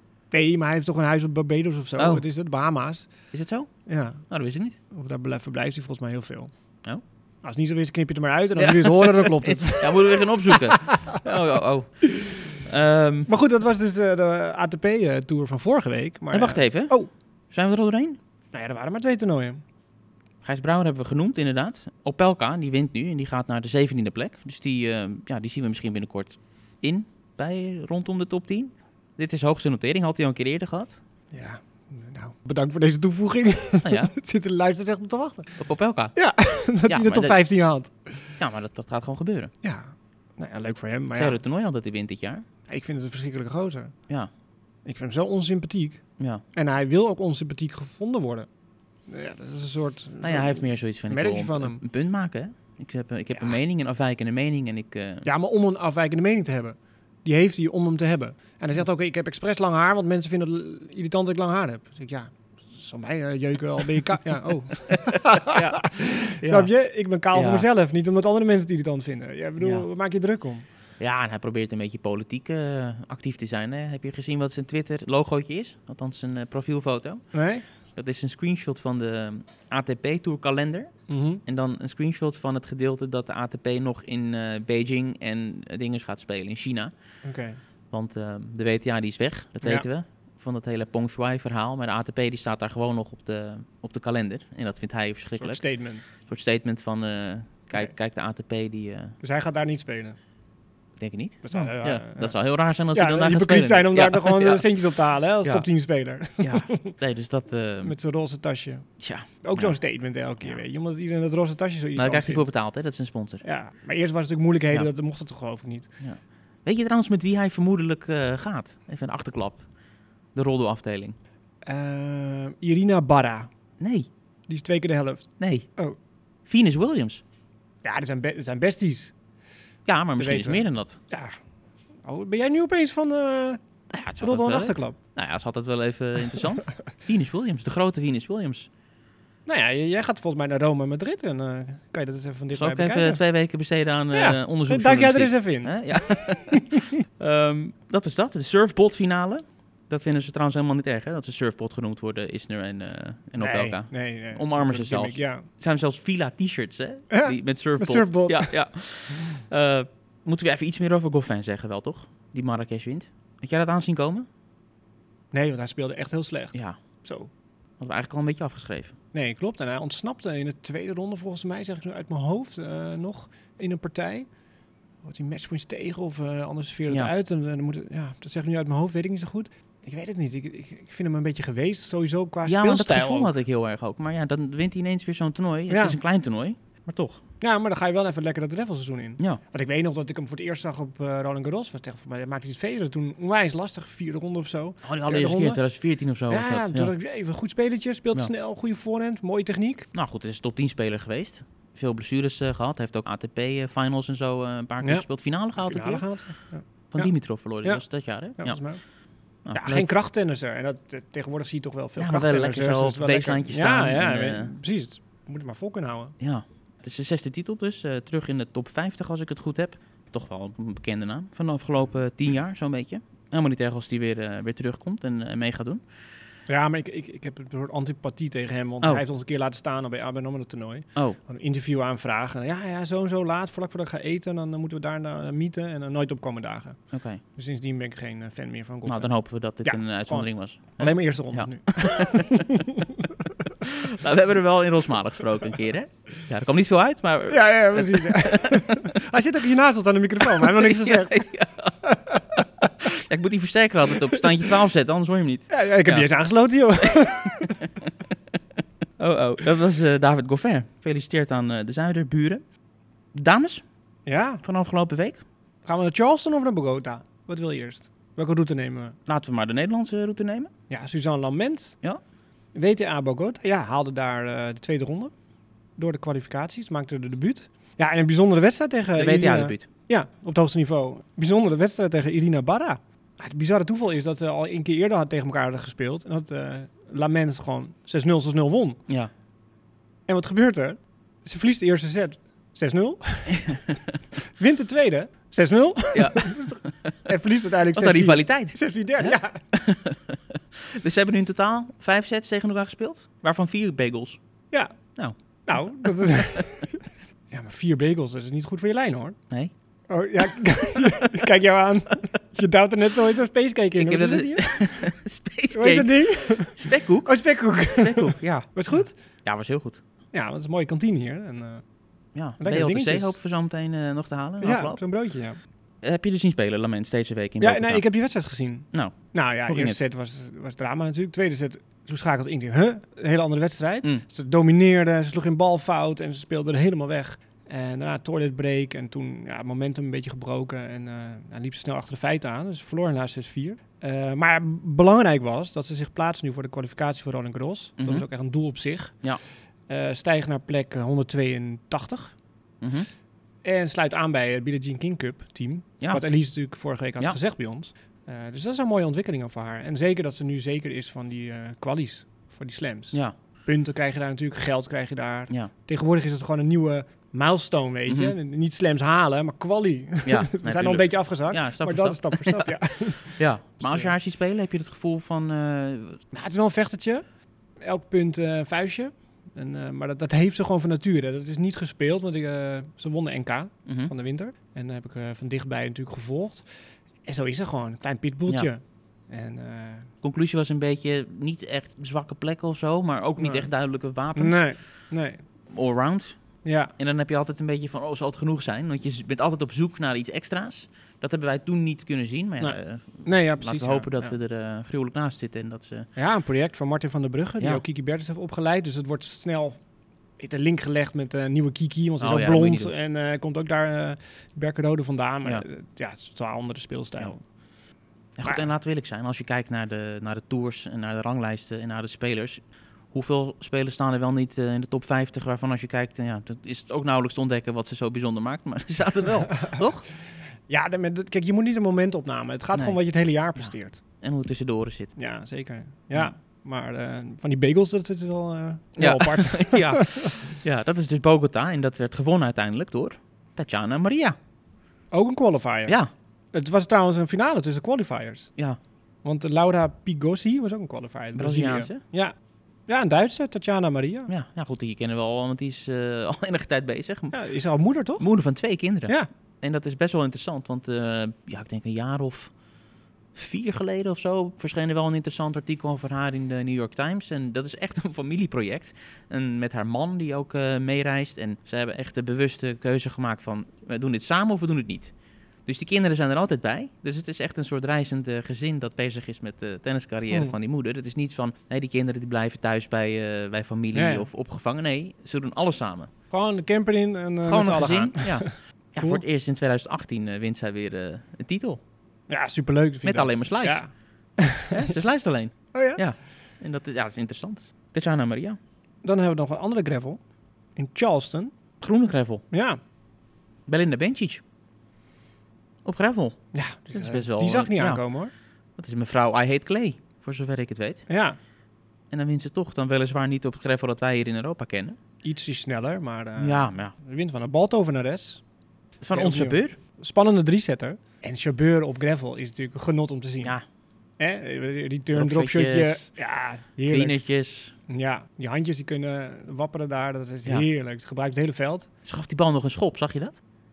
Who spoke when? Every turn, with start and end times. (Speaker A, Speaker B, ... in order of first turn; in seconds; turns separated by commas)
Speaker A: 0.3-3.1, Speaker B: 2.0-2.2, Speaker B: 3.3-3.7, Speaker A: 3.9-4.2, Speaker B: 4.3-4.8, Speaker A: 4.9-6.5, Speaker A: 7.4-11.2, Speaker B: 8.6-13.3, Speaker A: 13.3-17.1, Speaker B: 16.3-16.9, Speaker B: 17.5-18.2, Speaker A: 18.5-19.6, Speaker B: 20.4-31.0, Speaker A: 31.3-35.6, Speaker B: 33.8-34.1, Speaker B: 35.6-36.2, Speaker A: 36.1-38.4, Speaker B: 36.9-37.4, Speaker B: 38.4-39.5, Speaker A: 39.6-41.4, Speaker B: 41.1-42.5, Speaker A: 42.7-44.0, Speaker A: 44.9-46.0, Speaker A: 46.5-48.5, Speaker A: 49.1-51.8, Speaker B: 50.2-55.3, Speaker A: 55.2-70.7, Speaker B: 64.9-66.7, Speaker B: 67.3-67.7, Speaker B: 69.6-69.9, Speaker B: 71.0-77.2, Speaker A: 77.3-77.7, Speaker B: 78.0-80.9, Speaker A: 81.1-81.4, Speaker B: 81.5-86.9, Speaker A: 87.2-87.6, Speaker B: 87.9-95.6, Speaker A: 95.4-96.1, Speaker B: 96.2-99.2, Speaker A: 99.2-100.2, Speaker B: 101.0-104.7, Speaker A: 101.4-102.3, Speaker A: 102.9-106.9, Speaker B: 106.4-108.0, Speaker A: 107.8-108.9, Speaker B: 109.0-109.8, Speaker A: 109.4-112.5, Speaker B: 112.0-113.4, Speaker A: 113.4-115.9, Speaker B: 116.0-119.7, Speaker B: 120.3-121.2, Speaker A: 121.7-123.5, Speaker B: 123.8-124.1, Speaker A: 124.5-126.0, Speaker B: 125.4-125.7, Speaker B: 126.5-127.2, Speaker A: 127.8-129.1, Speaker B: 129.9-131.0, Speaker A: 130.2-131.3, Speaker A: 132.0-133.6, Speaker B: 133.9-138.7, Speaker A: 134.2-135.0, Speaker A: 139.5-143.2, Speaker B: 142.5-164.3, Speaker A: 144.1-146.9, Speaker A: 153.4-155.5, Speaker A: 157.1-158.5, Speaker A: 165.3-167.3, Speaker B: 167.8-169.0, Speaker A: 169.1-174.3, Speaker A: 175.0-183.3, Speaker B: 182.5-187.2, Speaker A: 185.7-186.0, Speaker A: 187.4-195.6, Speaker B: 194.8-196.9, Speaker A: 196.3-199.9, Speaker B: 199.9-206.1, Speaker A: 204.8-208.8, Speaker B: 206.9-208.6, Speaker B: 209.4-209.9, Speaker A: 209.5-216.2, Speaker B: 212.0-214.5, Speaker B: 216.2-225.8, Speaker A: 226.5-243.5, Speaker B: 236.9-237.2, Speaker B: 238.9-242.5, Speaker B: 243.6-249.0, Speaker A: 247.3-251.3, Speaker B: 250.3-251.7, Speaker A: 251.8-252.7, Speaker B: 252.8-256.1, Speaker A: 254.0-254.3, Speaker A: 255.5-257.7, Speaker B: 256.9-257.9, Speaker B: 259.0-262.4, Speaker B: 263.1-263.6, Speaker A: 264.1-264.4, Speaker B: 264.4-265.2, Speaker A: 265.7-269.0, Speaker B: 269.1-270.5, Speaker A: 270.7-271.8, Speaker A: 272.6-275.1, Speaker A: 275.8-288.8, Speaker B: 279.0-279.7, Speaker A: 290.1-293.7, Speaker B: 293.3-294.0, Speaker A: 294.4-299.4, Speaker B: 295.9-297.0, Speaker B: 297.7-304.2, Speaker B: 305.0-306.5, Speaker A: 305.5-309.2, Speaker A: 309.9-314.5, Speaker B: 313.8-318.5, Speaker A: 315.5-319.0, Speaker B: 319.2-319.8, Speaker A: 320.1-321.6, Speaker B: 322.1-324.8, Speaker A: 322.4-323.2, Speaker A: 324.4-325.4, Speaker B: 325.8-327.8, Speaker A: 327.4-349.0, Speaker B: 328.7-329.8, Speaker B: 347.8-348.1, Speaker A: 349.7-352.2, Speaker B: 352.6-352.9, Speaker A: 353.4-373.9, Speaker B: 367.9-368.1, Speaker B: 370.1-372.5, Speaker B: 373.2-376.0, Speaker A: 376.1-377.0, Speaker A: 377.6-386.5, Speaker B: 383.7-383.9, Speaker A: 387.0-389.9, Speaker B: 390.0-394.5, Speaker A: 393.2-393.5, Speaker A: 394.1-395.2, Speaker B: 395.5-405.9, Speaker A: 396.4-396.7, Speaker A: 402.4-404.1, Speaker A: 406.0-409.6, Speaker A: 410.2-417.2, Speaker B: 412.0-412.7, Speaker B: 418.2-429.9, Speaker A: 430.5-433.8, Speaker B: 432.5-432.8, Speaker B: 433.4-434.9, Speaker A: 435.0-440.3, Speaker B: 438.8-444.2, Speaker A: 444.9-445.8, Speaker A: 446.3-448.3, Speaker A: 449.0-452.1, Speaker B: 451.1-451.8, Speaker A: 452.7-454.1, Speaker B: 454.1-457.1, Speaker A: 457.1-458.1, Speaker B: 458.0-462.3, Speaker B: 463.1-474.9, Speaker B: 475.5-485.9, Speaker A: 483.7-484.1, Speaker A: 486.1-489.0, Speaker B: 487.3-491.6, Speaker A: 492.1-494.7, Speaker B: 492.8-493.6, Speaker B: 494.5-498.4, Speaker A: 495.5-495.8, Speaker A: 498.8-500.0, Speaker A: 500.6-501.3, Speaker B: 501.6-502.2, Speaker A: 502.3-502.6, Speaker B: 503.5-504.2, Speaker B: 505.6-506.2, Speaker A: 506.3-508.1, Speaker B: 506.7-507.8, Speaker B: 508.6-510.9, Speaker A: 510.9-511.2, Speaker B: 511.9-514.8, Speaker A: 515.0-518.2, Speaker B: 516.2-516.7, Speaker B: 518.8-519.6, Speaker A: 518.9-523.4, Speaker A: 524.0-527.0, Speaker B: 524.9-525.9, Speaker B: 526.7-527.5, Speaker A: 527.7-531.7, Speaker B: 531.8-533.2